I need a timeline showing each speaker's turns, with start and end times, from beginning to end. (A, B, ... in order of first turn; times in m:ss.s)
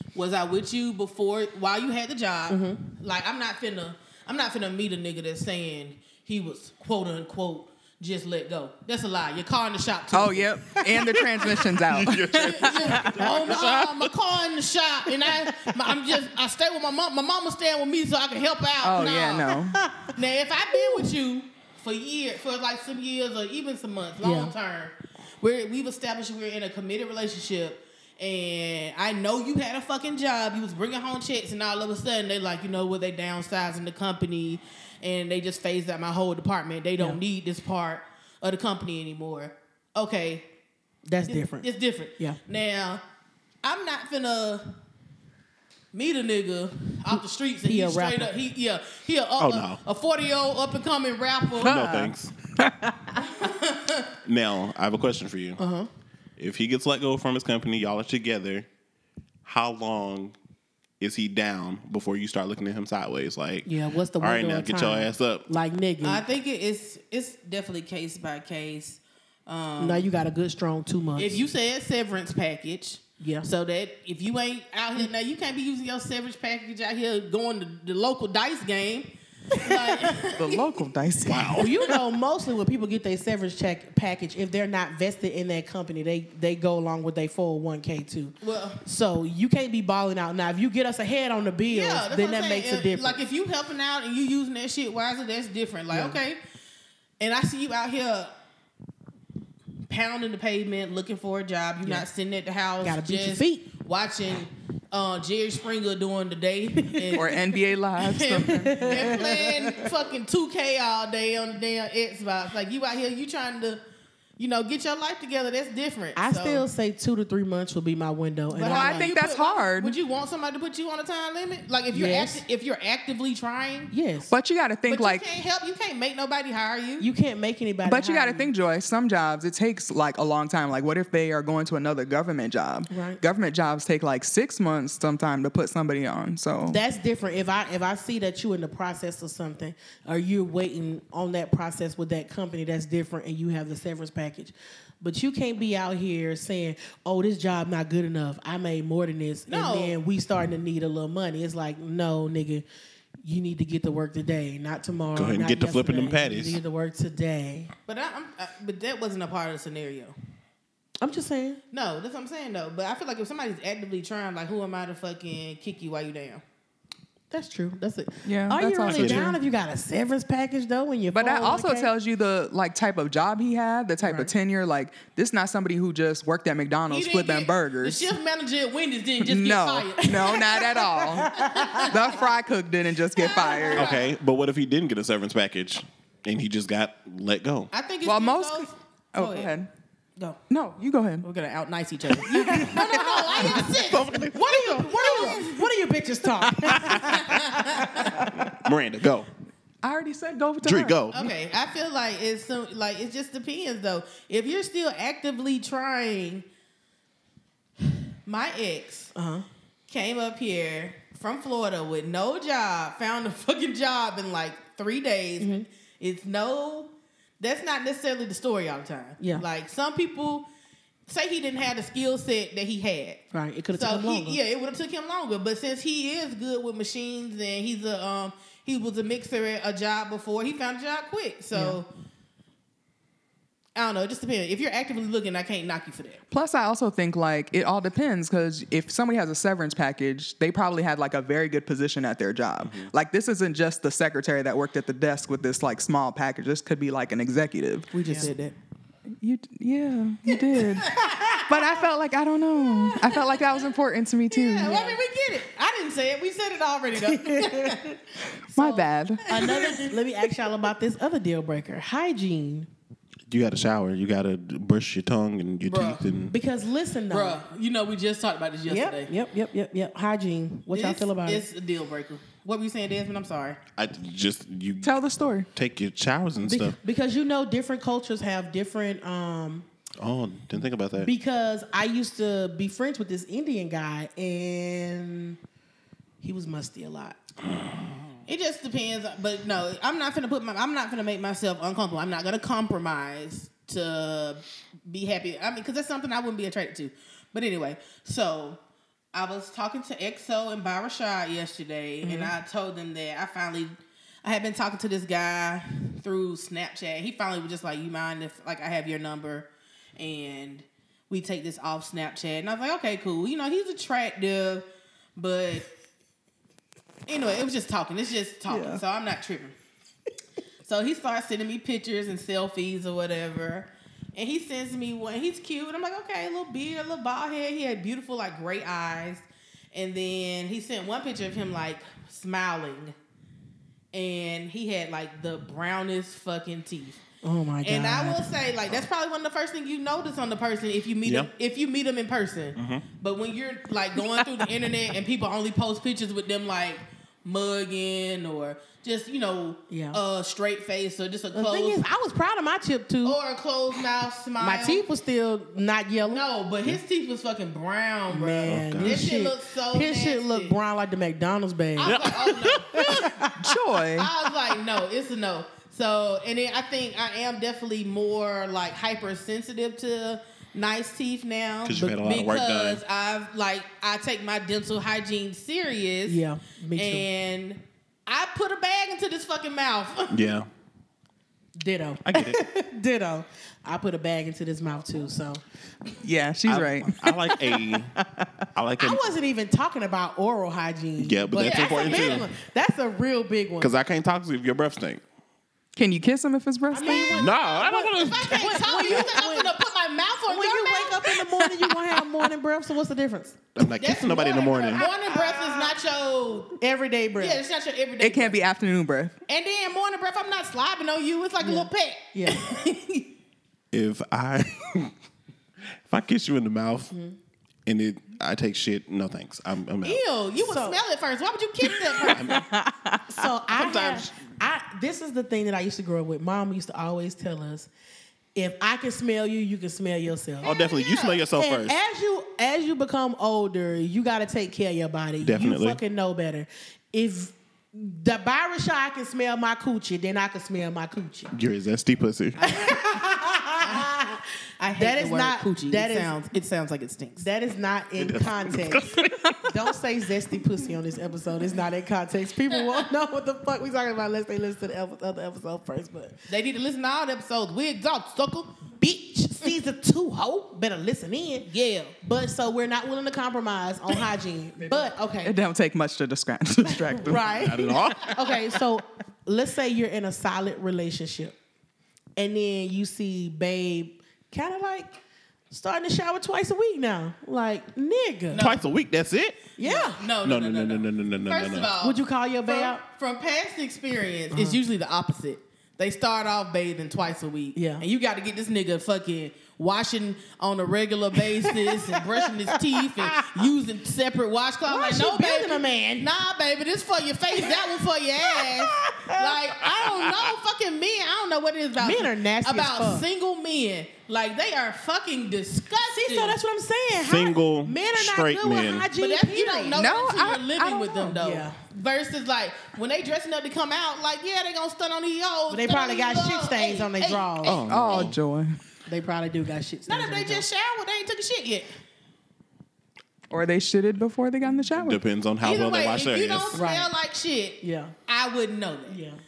0:00.1-0:10.5 A
0:02.5-0:02.9 B
0:10.1-0:13.2 C
0:11.9-0:14.1 D
0:12.3-0:19.6 A
0:18.8-0:19.8 C
0:19.7-0:20.1 B
0:20.1-0:40.5 A
0:20.7-0:21.1 B
0:24.2-0:24.5 B
0:41.1-0:42.4 B
0:41.3-0:43.0 A
0:43.6-0:44.8 A
0:45.9-0:51.9 A
0:47.6-0:48.3 B
0:49.4-0:49.8 D
0:51.6-0:52.4 D
0:51.6-0:53.2 C
0:53.2-0:54.1 A
0:54.2-0:55.6 D
0:55.6-0:55.9 B
0:56.4-0:58.7 D
0:59.4-1:00.4 D
1:01.0-1:05.5 D
1:03.6-1:06.2 B
1:06.0-1:10.1 A
1:09.8-1:11.4 B
1:11.2-1:20.6 A
1:13.2-1:13.5 B
1:19.6-1:20.2 B
1:20.4-1:21.7 C
1:21.3-1:21.9 D
1:21.6-1:33.2 B
1:28.4-1:28.8 A
1:31.7-1:36.4 A
1:35.9-1:36.2 B
1:37.2-1:38.3 A
1:39.9-1:47.4 A
1:41.8-1:42.1 B
1:42.8-1:43.7 B
1:46.8-1:47.2 B
1:47.2-1:49.2 C
1:48.0-1:53.8 A
1:48.4-1:49.9 B
1:54.4-1:56.7 A
1:56.2-1:59.1 B
1:58.5-2:03.9 A
1:58.6-1:59.9 C
2:01.9-2:02.4 B
2:03.9-2:04.3 B
2:04.3-2:05.2 C
2:04.9-2:07.1 A
2:07.0-2:08.5 B
2:07.9-2:16.8 C
2:12.9-2:13.2 B
2:16.7-2:32.6 B
2:29.5-2:30.0 A
2:33.2-2:37.7 B
2:35.2-2:36.6 D
2:37.9-2:40.2 A
2:41.0-2:41.6 B
2:41.7-2:46.4 A
2:47.3-2:51.9 B
2:48.2-2:49.4 C
2:48.9-2:49.3 D
2:51.1-2:58.1 C
2:54.0-2:54.3 B
2:56.9-3:00.7 A
2:59.2-3:03.9 C
3:01.1-3:01.9 B
3:01.3-3:02.2 A
3:03.2-3:04.1 A
3:03.4-3:03.8 B
3:03.8-3:07.7 D
3:07.7-3:09.5 A
3:08.0-3:09.7 C
3:10.5-3:11.3 C
3:11.2-3:15.7 A
3:12.2-3:13.6 B
3:13.4-3:15.4 D
3:14.3-3:18.5 B
3:16.4-3:17.3 D
3:16.9-3:18.3 A
3:18.0-3:19.3 D
3:19.8-3:21.0 C
3:20.6-3:21.2 D
3:21.1-3:26.4 A
3:27.8-3:29.1 A
3:29.2-3:29.5 B
3:29.9-3:40.5 A
3:35.4-3:35.7 B
3:39.2-3:39.4 B
3:41.1-3:43.2 A
3:43.3-3:44.4 B
3:43.7-3:51.9 A
3:51.5-3:51.8 B
3:53.8-3:56.2 A
3:56.3-4:08.3 C
4:02.6-4:02.9 D
4:08.0-4:08.6 A
4:08.0-4:08.3 B
4:09.2-4:14.8 C
4:10.6-4:11.4 A
4:12.8-4:13.5 A
4:14.3-4:18.0 A
4:17.1-4:17.8 B
4:18.5-4:19.9 A
4:18.5-4:19.3 C
4:19.3-4:22.7 B
4:23.3-4:26.4 D
4:25.6-4:26.1 A
4:26.3-4:27.4 B
4:27.1-4:29.1 A
4:28.7-4:31.4 B
4:30.7-4:33.6 A
4:33.8-4:34.9 D
4:34.8-4:35.5 C
4:35.5-4:36.8 D
4:36.4-4:39.6 B
4:40.0-4:41.1 D
4:41.0-4:45.4 B
4:46.2-4:47.2 B
4:48.3-4:58.6 A
4:59.1-5:15.7 A
5:02.0-5:02.3 B
5:17.1-5:19.6 A
5:18.5-5:18.8 B
5:20.6-5:33.0 A
5:33.9-5:37.0 A
5:37.2-5:38.3 B
5:37.6-5:51.8 A
5:42.6-5:42.8 D
5:49.7-5:50.0 B
5:51.3-5:53.2 B
5:53.0-5:54.8 A
5:54.4-5:56.2 B
5:56.1-6:00.6 A
5:58.1-6:02.1 B
5:58.5-5:59.0 D
6:01.8-6:03.2 A
6:01.8-6:03.1 D
6:02.7-6:03.5 B
6:03.4-6:04.1 C
6:04.0-6:16.2 A
6:11.6-6:12.8 D
6:11.8-6:12.0 B
6:16.1-6:17.1 B
6:16.8-6:20.2 A
6:20.1-6:20.5 D
6:21.6-6:25.4 B
6:22.0-6:22.4 D
6:26.0-6:28.4 C
6:26.5-6:28.0 D
6:28.5-6:29.0 D
6:28.8-6:33.7 B
6:31.0-6:32.3 D
6:31.4-6:32.3 A
6:33.6-6:35.0 D
6:35.8-6:37.3 C
6:36.7-6:39.6 B
6:36.9-6:39.0 D
6:37.8-6:41.1 A
6:40.3-6:43.4 B
6:41.6-6:41.9 C
6:43.6-6:44.9 D
6:43.7-6:46.5 A
6:44.8-6:45.7 B
6:46.6-6:47.4 B
6:47.2-6:48.4 A
6:48.0-6:49.2 C
6:49.3-6:53.1 A
6:51.4-6:52.6 B
6:53.7-6:54.9 D
6:55.9-6:56.9 D
6:57.7-7:00.0 D
6:59.8-7:02.4 A
7:00.4-7:00.8 B
7:02.1-7:02.5 D
7:02.4-7:03.1 C
7:03.1-7:07.7 B
7:03.5-7:04.1 D
7:08.4-7:10.5 B
7:10.4-7:11.3 A
7:10.4-7:11.8 D
7:11.4-7:21.3 B
7:15.2-7:15.8 D
7:21.3-7:22.4 D
7:22.4-7:22.8 A
7:22.4-7:24.2 B
7:23.6-7:23.9 A
7:24.6-7:27.2 A
7:24.8-7:26.2 B
7:27.2-7:36.2 B
7:28.0-7:29.5 D
7:36.3-7:38.6 A
7:38.8-7:41.5 B
7:41.5-7:41.9 A
7:42.0-7:45.4 B
7:45.2-7:47.2 C
7:47.0-7:51.4 B
7:47.3-7:48.4 D
7:52.2-7:54.9 B
7:55.5-7:58.4 B
7:58.3-7:58.6 A
7:58.4-7:59.4 D
7:59.6-8:00.0 B
7:59.6-8:26.4 A
8:00.2-8:01.7 D
8:01.8-8:02.8 B
8:04.3-8:04.6 B
8:07.6-8:07.8 B
8:11.4-8:13.4 B
8:14.7-8:16.1 B
8:18.3-8:19.4 B
8:21.8-8:23.1 B
8:26.0-8:29.8 B
8:27.0-8:28.9 D
8:29.0-8:38.1 A
8:29.8-8:31.2 C
8:31.1-8:31.6 B
8:35.5-8:37.7 B
8:37.4-8:38.2 D
8:37.7-8:38.6 C
8:38.9-8:40.4 B
8:39.9-8:41.7 A
8:43.3-8:45.0 C
8:44.5-8:46.6 D
8:45.4-8:49.0 A
8:46.5-8:46.9 B
8:47.6-8:48.0 B
8:48.9-8:49.2 B